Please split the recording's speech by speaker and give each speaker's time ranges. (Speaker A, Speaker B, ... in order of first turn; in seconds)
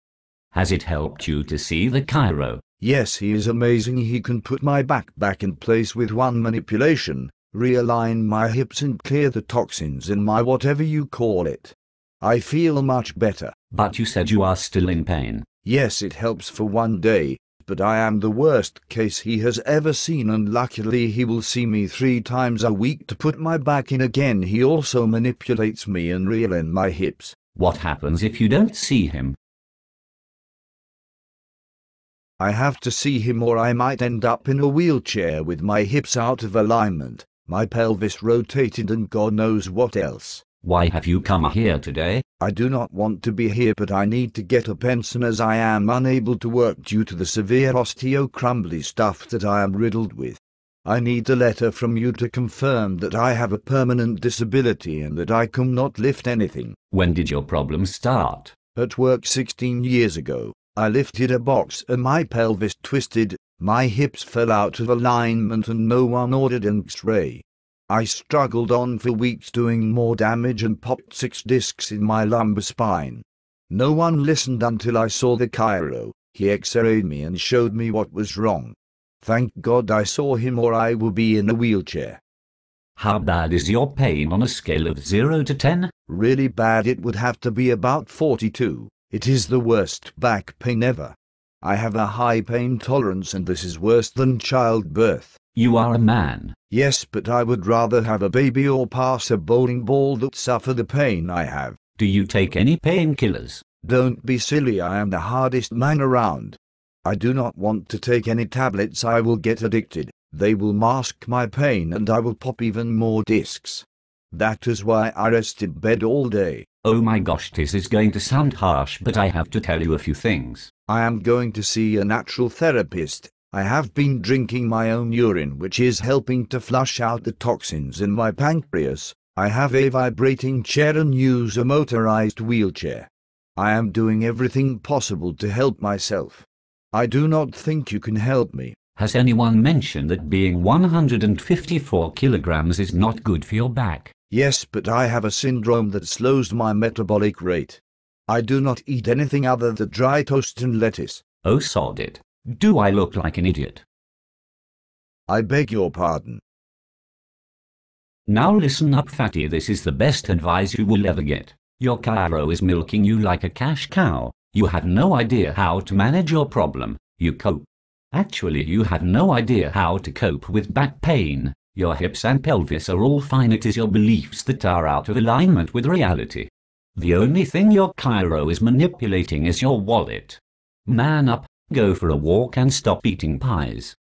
Speaker A: 0.5-2.6, 13.7-15.5, 27.6-29.4, 40.6-42.2, 56.9-58.5, 83.0-85.9, 95.5-96.5, 102.0-103.6, 116.8-120.7, 139.0-144.1, 151.4-153.8, 158.3-183.9
Speaker B: 2.8-13.6, 15.6-27.4, 32.4-40.5, 42.4-56.8, 58.8-82.2, 86.1-95.4, 96.7-101.8, 103.8-116.7, 120.9-138.8, 144.3-151.2, 155.3-156.4